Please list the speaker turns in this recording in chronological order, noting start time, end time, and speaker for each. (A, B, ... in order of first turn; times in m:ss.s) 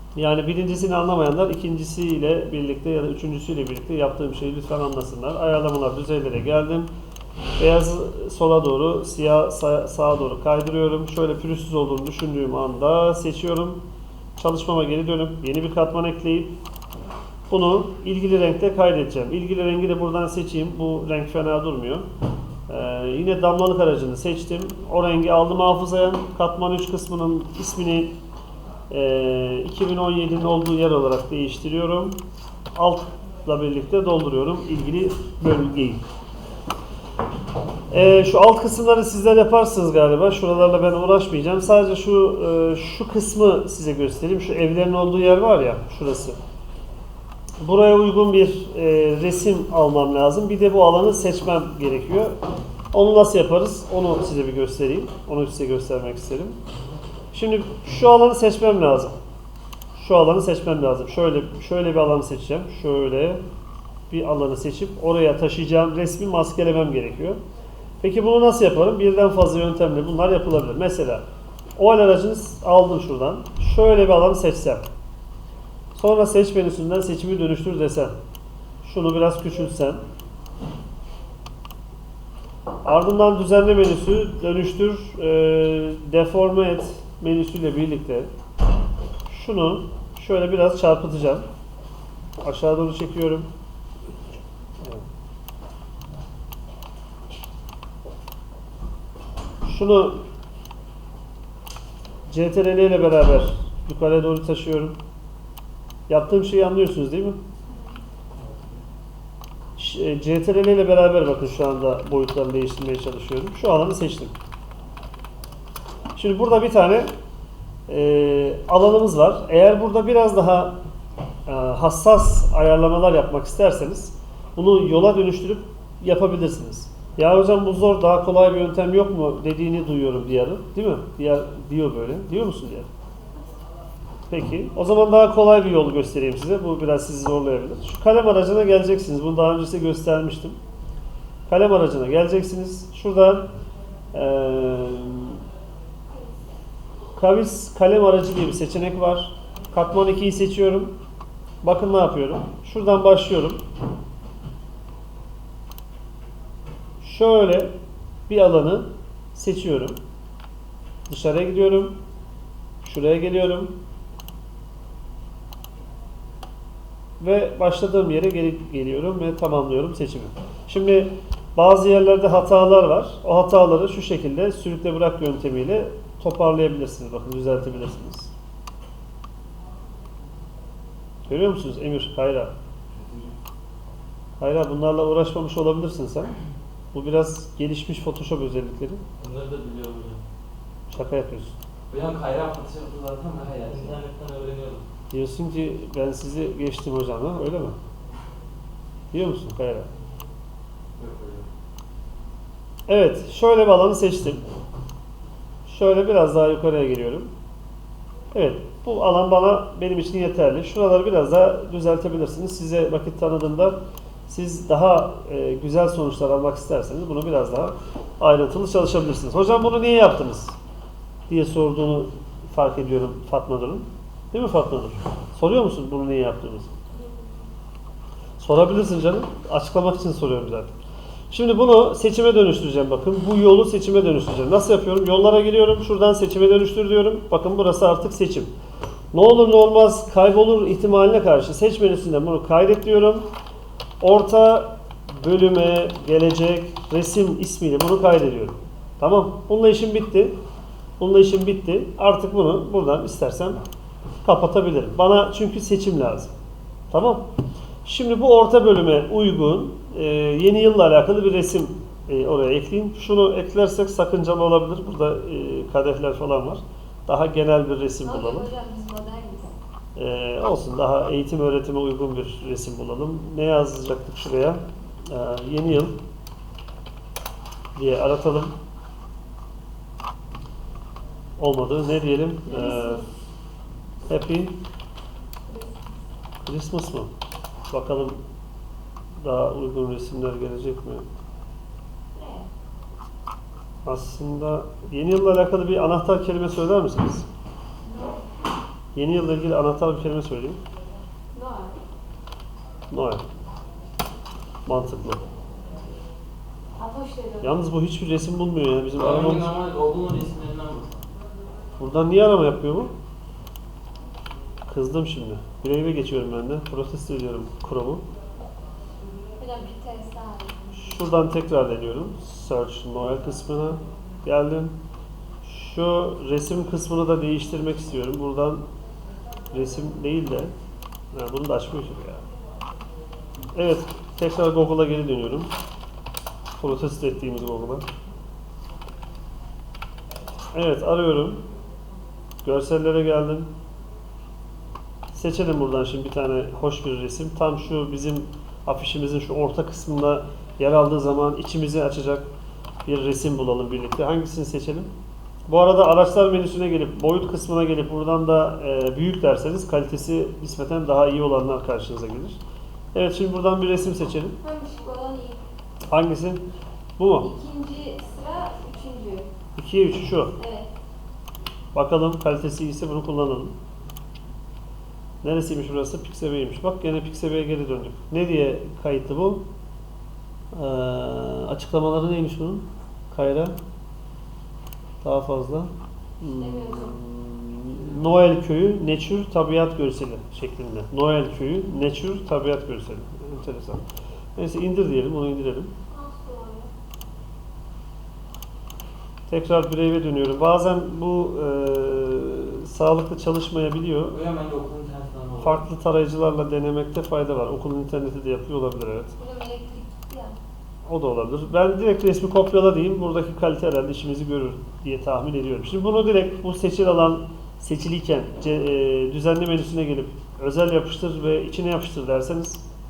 0:00.2-0:06.9 A
0:07.6-0:13.8 A
0:14.4-0:16.6 A
0:17.5-0:22.1 A
0:22.7-0:28.1 A
0:28.9-0:32.2 A
0:32.8-0:36.0 A
0:37.9-0:46.4 A
0:47.6-0:52.4 A
0:52.9-0:56.6 A
0:57.3-0:59.2 A
1:00.0-1:03.4 A
1:04.1-1:07.4 A
1:08.0-1:11.2 A
1:11.8-1:14.9 A
1:15.9-1:18.2 A
1:18.8-1:20.0 A
1:22.8-1:28.3 A
1:29.3-1:31.5 A
1:32.4-1:33.5 A
1:39.6-1:40.2 A
1:42.3-1:45.0 A
1:46.1-1:47.4 A
1:49.8-1:54.3 A
1:56.2-1:57.1 A
1:57.9-2:00.8 A
2:01.5-2:12.9 A
2:14.3-2:20.6 A
2:21.5-2:23.5 A
2:24.1-2:25.4 A
2:27.2-2:30.9 A
2:31.6-2:33.6 A
2:37.0-2:37.7 A
2:38.3-2:40.0 A
2:41.1-2:42.0 A
2:42.8-2:43.7 A
2:47.2-2:58.3 A
3:01.3-3:02.5 A
3:03.0-3:03.3 B
3:04.4-3:06.4 A
3:06.9-3:09.0 A
3:09.2-3:10.2 B
3:10.9-3:11.6 A
3:11.9-3:14.8 B
3:15.1-3:17.8 A
3:19.1-3:19.9 A
3:21.0-3:21.5 B
3:22.9-3:24.4 A
3:25.7-3:27.3 A
3:28.3-3:33.8 A
3:34.3-3:40.6 A
3:41.3-3:46.8 A
3:48.4-3:50.7 A
3:51.3-3:58.5 A
3:59.1-4:03.3 A
4:04.0-4:10.3 A
4:11.0-4:13.6 A
4:14.2-4:16.3 A
4:16.9-4:17.2 A
4:17.8-4:28.5 A
4:28.0-4:29.5 C
4:30.0-4:36.0 A
4:37.8-4:38.6 A
4:41.4-4:43.0 A
4:42.5-4:43.0 C
4:44.1-4:44.6 A
4:45.5-4:45.9 C
4:46.4-4:47.1 A
4:47.7-4:48.2 A
4:49.2-4:51.1 A
4:52.1-4:52.5 C
4:53.8-4:57.3 A
4:57.9-4:58.2 C
4:59.0-5:00.6 A
5:01.3-5:01.8 C
5:02.9-5:03.2 A
5:04.7-5:05.2 A
5:06.8-5:07.6 C
5:07.4-5:09.5 A
5:09.0-5:11.0 B
5:11.8-5:12.9 A
5:14.7-5:18.0 A
5:19.4-5:20.6 C
5:20.7-5:24.8 A
5:25.4-5:28.6 A
5:29.5-5:30.5 A
5:31.1-5:32.2 A
5:33.6-5:35.5 A
5:36.6-5:37.8 A
5:40.5-5:41.4 A
5:42.4-5:43.5 A
5:45.1-5:52.3 A
5:52.9-5:54.9 A
5:55.5-6:02.4 A
6:02.9-6:04.4 A
6:04.4-6:05.4 C
6:05.9-6:06.4 A
6:07.0-6:07.3 A
6:07.2-6:09.3 C
6:09.6-6:10.3 A
6:10.4-6:10.7 C
6:11.7-6:13.6 A
6:15.2-6:19.4 A
6:20.5-6:23.6 A
6:25.0-6:33.8 A
6:26.4-6:27.0 C
6:34.4-6:35.7 A
6:35.9-6:36.7 C
6:39.3-6:44.2 A
6:44.1-6:45.6 B
6:45.4-6:49.1 A
6:49.2-6:50.4 C
6:50.9-7:02.6 A